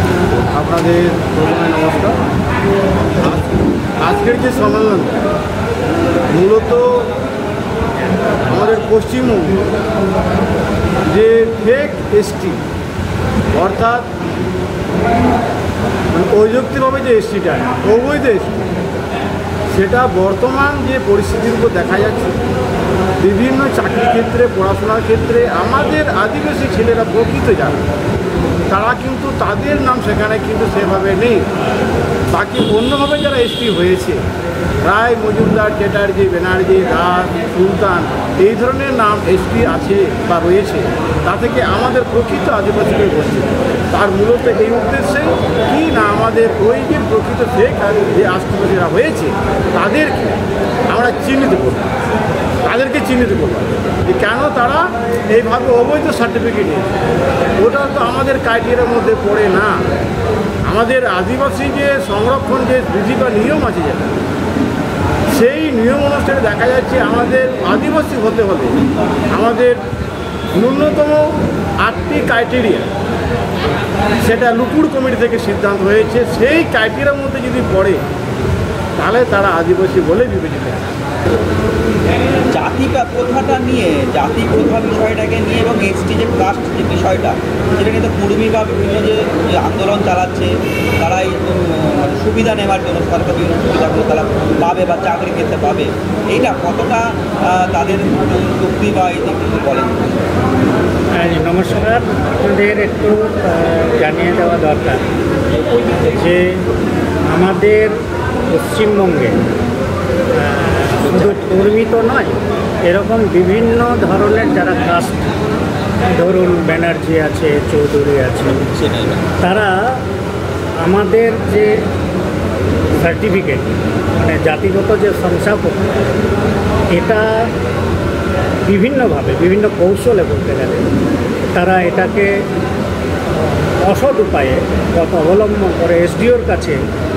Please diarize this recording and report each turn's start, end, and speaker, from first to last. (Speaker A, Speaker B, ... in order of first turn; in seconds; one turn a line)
Speaker A: 0.5-2.2
Speaker A: 3.2-5.2
Speaker A: 6.3-7.1
Speaker B: 8.3-8.9
Speaker A: 8.5-9.6
Speaker A: 11.1-12.6
Speaker A: 13.5-14.1
Speaker A: 16.1-18.7
Speaker A: 19.7-22.4
Speaker A: 23.2-27.8
Speaker A: 28.7-31.4
Speaker A: 32.3-34.2
Speaker A: 34.9-51.9
Speaker A: 52.6-56.9
Speaker A: 57.6-59.7
Speaker A: 60.7-64.1
Speaker A: 65.3-69.8
Speaker A: 70.5-71.3
Speaker A: 71.8-72.9
Speaker A: 74.2-78.0
Speaker A: 79.0-80.8
Speaker B: 82.5-100.3
Speaker C: 101.2-105.0
Speaker C: 106.1-106.6
Speaker C: 107.2-108.0
Speaker C: 108.5-109.4
Speaker C: 110.3-115.3
Speaker B: 111.1-111.4
Speaker C: 116.1-118.6
Speaker B: 118.5-119.3
Speaker C: 119.4-120.0
Speaker C: 120.8-121.8
Speaker C: 123.0-125.8
Speaker C: 126.9-127.5
Speaker C: 128.7-130.9
Speaker C: 131.6-132.4
Speaker C: 133.8-136.8